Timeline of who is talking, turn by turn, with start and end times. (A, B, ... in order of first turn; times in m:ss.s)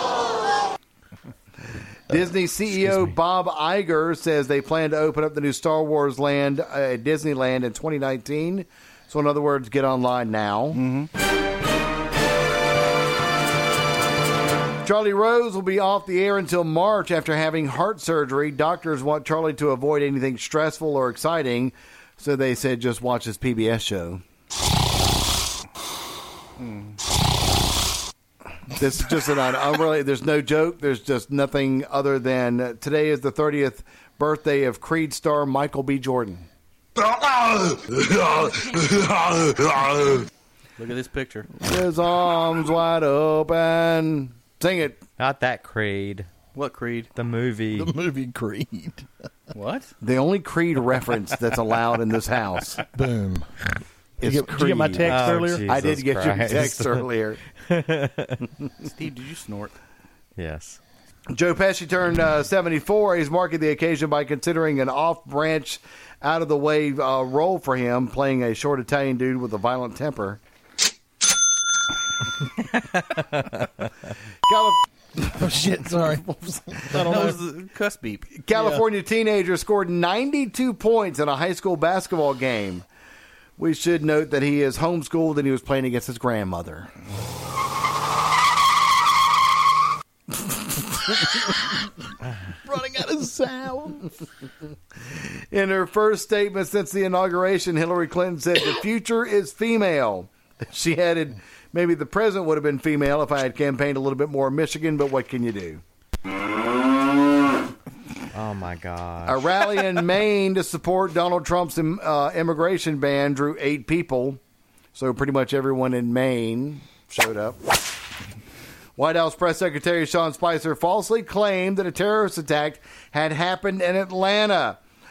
0:02.1-0:10.8 A
0:10.7-0:11.1 B
0:14.8-0:24.2 A
0:26.6-0:27.0 B
0:28.7-0:36.5 A
0:40.8-0:41.5 B
0:41.6-0:45.0 A
0:45.2-0:46.3 C
0:46.5-0:47.1 B
0:47.1-0:47.9 C
0:47.8-0:49.1 D
0:49.5-0:49.9 B
0:50.0-0:52.8 A
0:52.9-0:53.5 D
0:54.2-0:57.4 A
0:54.2-0:55.8 D
0:55.0-0:57.1 C
0:57.6-0:58.5 C
0:58.9-0:59.7 B
1:00.4-1:00.8 C
1:01.3-1:10.4 A
1:14.4-1:15.4 A
1:15.2-1:17.4 D
1:16.9-1:18.4 B
1:18.4-1:22.8 A
1:18.5-1:18.8 D
1:23.6-1:26.9 A
1:30.3-1:31.2 A
1:32.6-1:34.1 D
1:35.1-1:45.8 A
1:48.3-1:49.5 C
1:49.3-1:54.4 A
1:55.0-1:57.7 A
1:59.0-2:04.8 A